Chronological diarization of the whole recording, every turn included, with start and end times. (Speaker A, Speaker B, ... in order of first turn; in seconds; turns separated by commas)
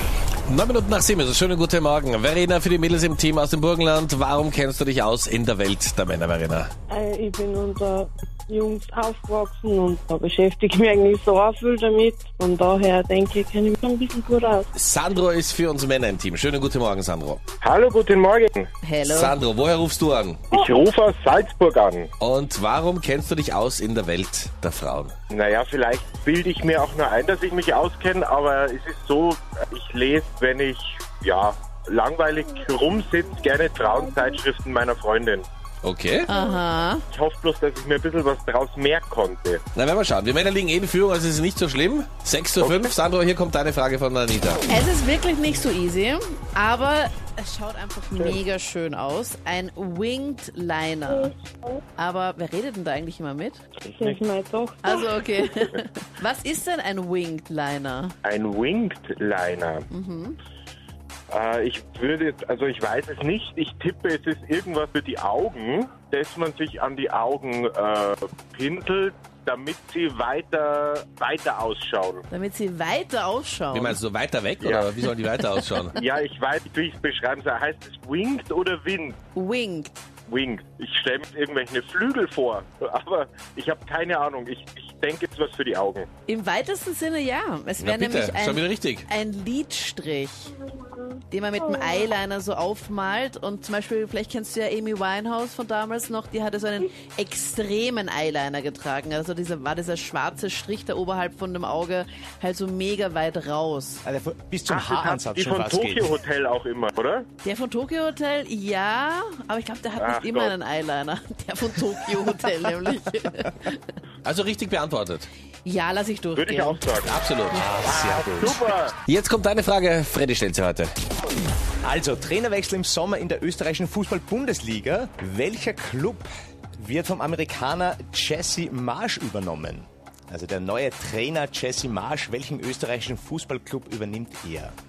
Speaker A: 0.5-6.7, Speaker B: 6.9-14.7, Speaker A: 14.7-17.4, Speaker C: 17.6-18.7, Speaker D: 18.8-19.4, Speaker A: 19.0-20.4, Speaker C: 20.5-22.1, Speaker A: 22.2-25.1, Speaker C: 25.3-35.5, Speaker A: 35.8-36.3, Speaker D: 36.3-37.0, Speaker C: 37.1-39.6, Speaker A: 39.7-44.6, Speaker C: 42.6-42.9, Speaker D: 44.7-51.3, Speaker B: 51.1-51.8, Speaker D: 52.0-53.6, Speaker C: 53.9-54.2, Speaker B: 53.9-55.1, Speaker D: 54.8-58.1, Speaker C: 58.2-59.8, Speaker D: 59.9-60.4, Speaker C: 61.3-72.2, Speaker D: 72.3-74.0, Speaker A: 73.7-76.0, Speaker C: 74.6-74.9, Speaker C: 76.0-79.2, Speaker D: 79.3-79.9, Speaker C: 80.3-86.1, Speaker D: 86.3-90.6, Speaker A: 87.8-89.0, Speaker B: 90.7-92.1, Speaker D: 91.3-104.0, Speaker E: 104.0-106.1, Speaker C: 104.7-107.3, Speaker D: 107.4-113.9, Speaker C: 110.0-110.5, Speaker A: 114.2-115.3, Speaker D: 115.6-116.8, Speaker C: 116.3-117.2, Speaker A: 117.0-117.7, Speaker E: 117.5-118.6, Speaker C: 117.8-118.9, Speaker A: 119.0-120.9, Speaker E: 121.8-134.7